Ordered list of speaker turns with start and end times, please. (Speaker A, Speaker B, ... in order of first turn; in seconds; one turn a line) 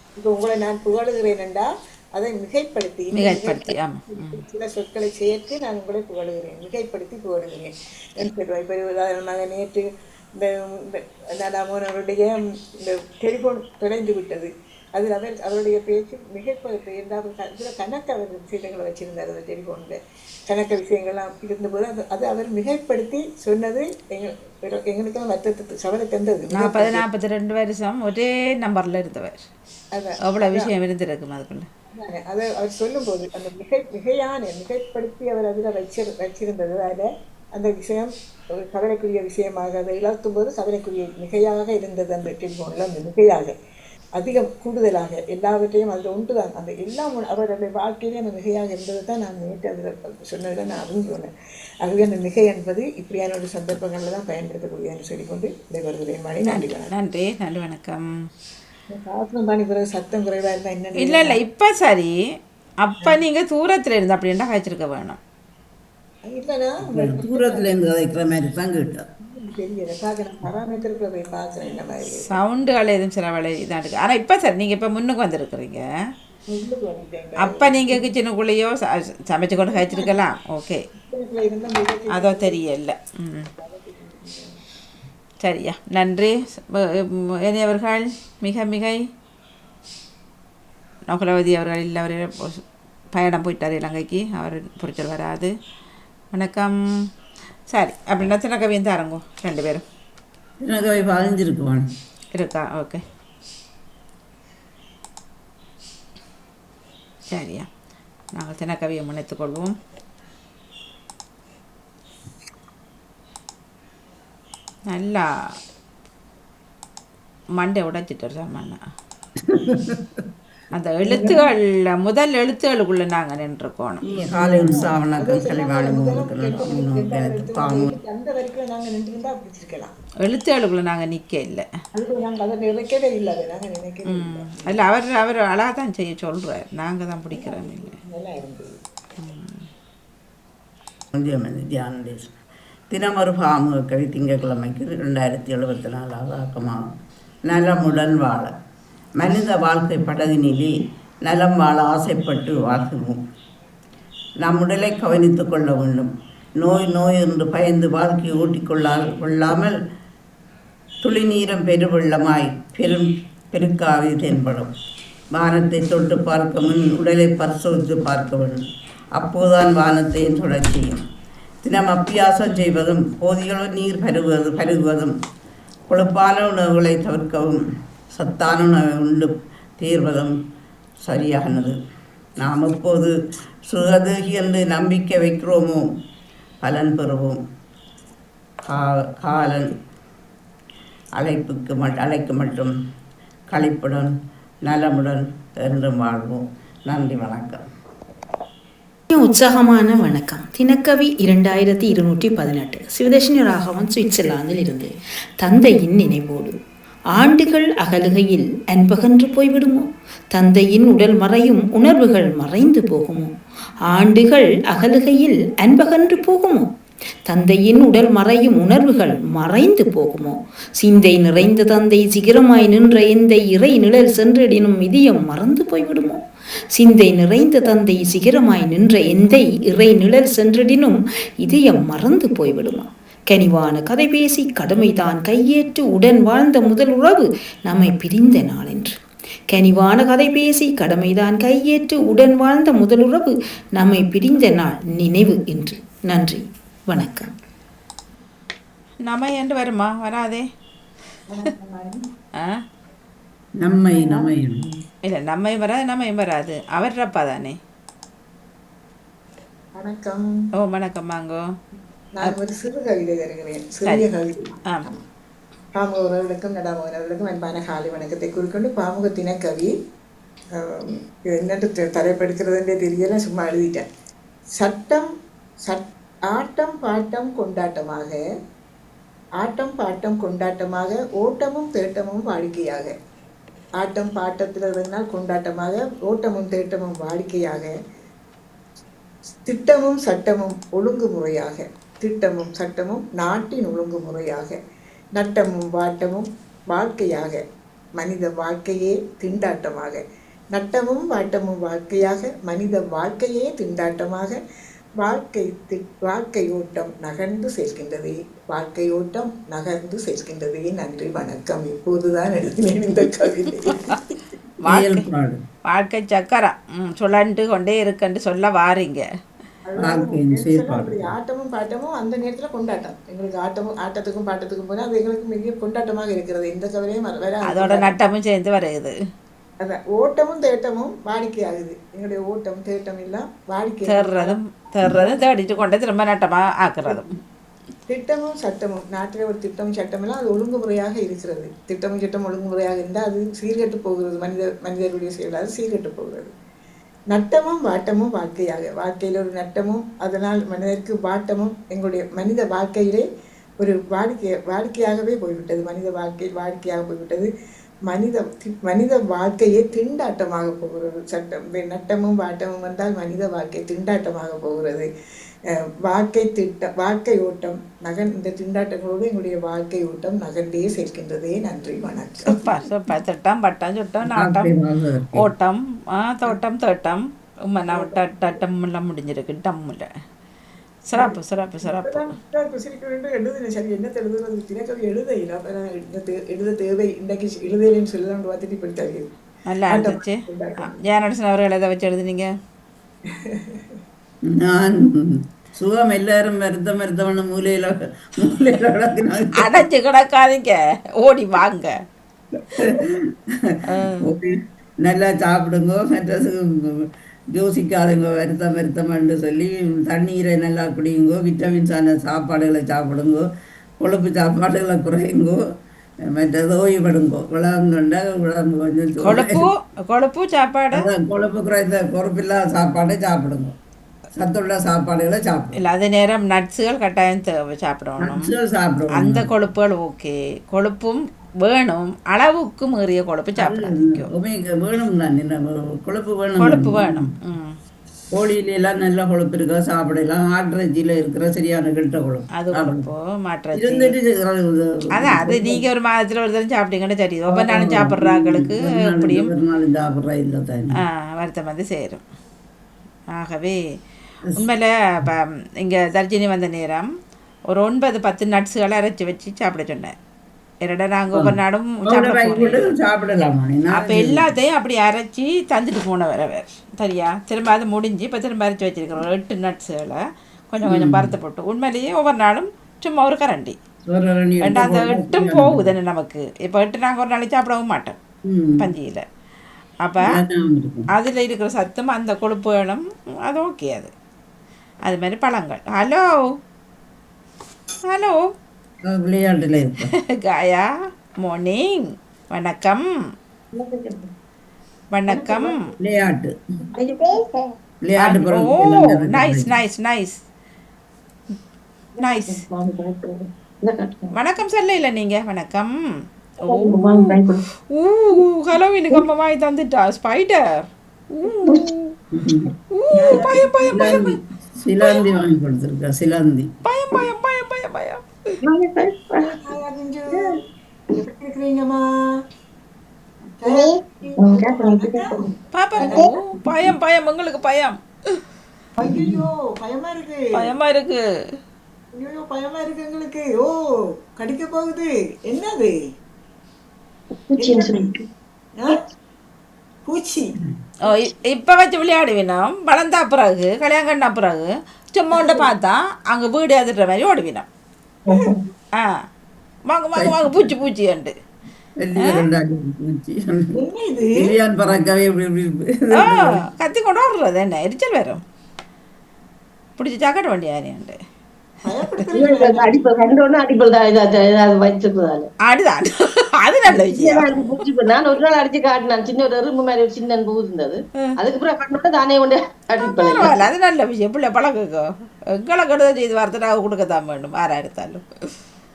Speaker A: 0.2-9.8
Speaker B: 3.1-4.4
Speaker A: 10.4-12.3
Speaker A: 12.8-27.0
Speaker B: 26.6-29.5
Speaker A: 29.9-30.7
Speaker B: 30.3-31.7
Speaker A: 31.9-38.1
Speaker A: 38.7-43.5
Speaker A: 44.1-51.3
Speaker A: 51.8-56.9
Speaker B: 56.5-58.0
Speaker A: 58.9-61.4
Speaker B: 61.0-62.1
Speaker B: 62.8-65.2
Speaker A: 66.2-67.8
Speaker C: 66.9-69.0
Speaker A: 69.2-72.3
Speaker B: 72.1-75.8
Speaker A: 76.5-78.0
Speaker B: 77.4-80.8
Speaker A: 79.7-80.1
Speaker A: 81.1-82.6
Speaker B: 82.2-83.5
Speaker A: 83.6-84.5
Speaker B: 85.4-86.8
Speaker B: 87.4-89.0
Speaker B: 91.1-92.6
Speaker B: 93.1-95.5
Speaker B: 96.3-96.7
Speaker B: 97.7-99.8
Speaker C: 100.6-101.8
Speaker B: 102.3-103.0
Speaker B: 107.3-107.7
Speaker B: 108.3-109.7
Speaker B: 114.9-115.2
Speaker B: 117.6-118.8
Speaker C: 119.5-120.2
Speaker B: 120.7-124.0
Speaker A: 121.1-121.4
Speaker C: 124.0-127.9
Speaker A: 124.3-129.9
Speaker B: 130.2-131.7
Speaker A: 131.9-134.8
Speaker B: 134.1-138.0
Speaker A: 137.3-138.7
Speaker B: 139.2-139.6
Speaker C: 141.2-142.3
Speaker C: 142.9-146.9
Speaker C: 147.5-148.5
Speaker C: 149.2-150.7
Speaker C: 151.2-153.2
Speaker C: 154.4-159.7
Speaker C: 161.0-164.7
Speaker C: 165.3-168.6
Speaker C: 169.2-171.0
Speaker C: 171.6-175.1
Speaker C: 175.9-177.6
Speaker C: 178.1-180.3
Speaker C: 181.1-181.8
Speaker C: 182.4-183.1
Speaker C: 183.7-185.8
Speaker C: 186.6-187.4
Speaker C: 188.7-189.7
Speaker C: 191.2-192.7
Speaker C: 193.5-194.1
Speaker C: 194.7-197.6
Speaker D: 199.1-204.9
Speaker D: 205.4-206.6
Speaker D: 207.1-213.3
Speaker D: 213.9-216.7
Speaker D: 217.3-226.2
Speaker D: 226.8-238.9
Speaker D: 239.5-247.3
Speaker B: 249.1-250.5
Speaker A: 251.3-252.0
Speaker C: 253.6-254.6
Speaker A: 253.9-254.3
Speaker B: 255.1-257.6
Speaker A: 259.7-260.3
Speaker B: 260.6-261.4
Speaker A: 262.1-265.0
Speaker A: 265.7-269.7
Speaker A: 270.6-273.8
Speaker A: 274.6-275.1
Speaker A: 275.7-278.2
Speaker A: 279.4-282.9
Speaker A: 283.8-287.7
Speaker A: 289.4-294.6
Speaker A: 295.1-297.4
Speaker A: 298.0-304.4
Speaker A: 305.0-314.1
Speaker B: 314.6-315.0
Speaker C: 314.6-315.4
Speaker B: 315.7-319.0
Speaker A: 319.6-328.0
Speaker C: 319.8-321.1
Speaker B: 327.5-328.9
Speaker A: 329.6-335.1
Speaker B: 333.9-337.1
Speaker A: 337.9-346.3
Speaker A: 347.1-353.0
Speaker A: 353.6-357.3
Speaker A: 357.9-364.9
Speaker A: 365.8-372.6
Speaker B: 372.3-374.5
Speaker C: 374.1-375.3
Speaker B: 375.2-379.9
Speaker A: 377.7-378.0
Speaker B: 380.9-382.0
Speaker A: 380.9-389.1
Speaker B: 389.5-392.3
Speaker A: 389.7-390.8
Speaker A: 393.3-393.7
Speaker C: 394.3-399.6
Speaker B: 399.4-401.7
Speaker C: 402.6-413.2
Speaker B: 403.7-404.0
Speaker C: 413.8-415.4
Speaker C: 416.1-419.4
Speaker B: 419.0-420.8
Speaker C: 420.7-423.5
Speaker C: 424.1-425.6
Speaker B: 425.6-428.3
Speaker C: 428.0-429.3
Speaker B: 429.0-434.1
Speaker C: 433.4-437.1
Speaker B: 436.4-437.5
Speaker C: 438.1-442.9
Speaker B: 442.4-443.9
Speaker C: 443.5-445.6
Speaker B: 445.0-449.3
Speaker C: 447.3-450.7
Speaker B: 450.8-452.0
Speaker B: 453.1-453.6
Speaker B: 454.4-456.9
Speaker B: 457.5-459.9
Speaker B: 460.6-462.7
Speaker C: 461.1-464.3
Speaker B: 463.7-473.6
Speaker C: 470.6-471.1
Speaker C: 473.9-475.7
Speaker B: 474.4-478.0
Speaker C: 478.3-478.6
Speaker B: 478.6-479.0
Speaker C: 480.1-480.9
Speaker B: 480.9-483.9
Speaker B: 484.9-486.0
Speaker B: 487.9-488.2
Speaker C: 488.9-489.9
Speaker B: 490.2-490.6
Speaker B: 491.2-492.8
Speaker E: 493.5-494.0
Speaker B: 494.9-495.6
Speaker E: 495.1-495.6
Speaker C: 495.8-496.3
Speaker E: 496.8-497.1
Speaker C: 497.8-499.5
Speaker B: 498.0-500.1
Speaker E: 502.0-504.1
Speaker B: 502.0-502.4
Speaker B: 504.1-505.7
Speaker E: 506.4-507.4
Speaker B: 506.4-511.9
Speaker C: 512.1-512.5
Speaker B: 512.7-514.2
Speaker A: 512.9-513.6
Speaker C: 513.7-516.5
Speaker B: 516.6-518.0
Speaker A: 519.2-520.3
Speaker A: 520.9-521.8
Speaker A: 523.4-526.1
Speaker E: 524.2-524.5
Speaker B: 525.5-527.8
Speaker A: 528.8-530.2
Speaker B: 530.4-531.0
Speaker A: 531.9-533.5
Speaker A: 534.1-535.7
Speaker A: 537.4-537.9
Speaker A: 539.8-540.3
Speaker B: 540.8-547.5
Speaker A: 545.1-545.4
Speaker B: 549.7-551.1
Speaker C: 550.0-550.5
Speaker C: 551.8-553.5
Speaker A: 553.5-554.2
Speaker C: 554.2-556.3
Speaker B: 556.0-558.2
Speaker B: 559.8-561.0
Speaker A: 561.6-562.8
Speaker E: 562.1-565.3
Speaker B: 565.5-565.9
Speaker B: 566.4-567.5
Speaker E: 566.7-573.5
Speaker B: 572.8-578.0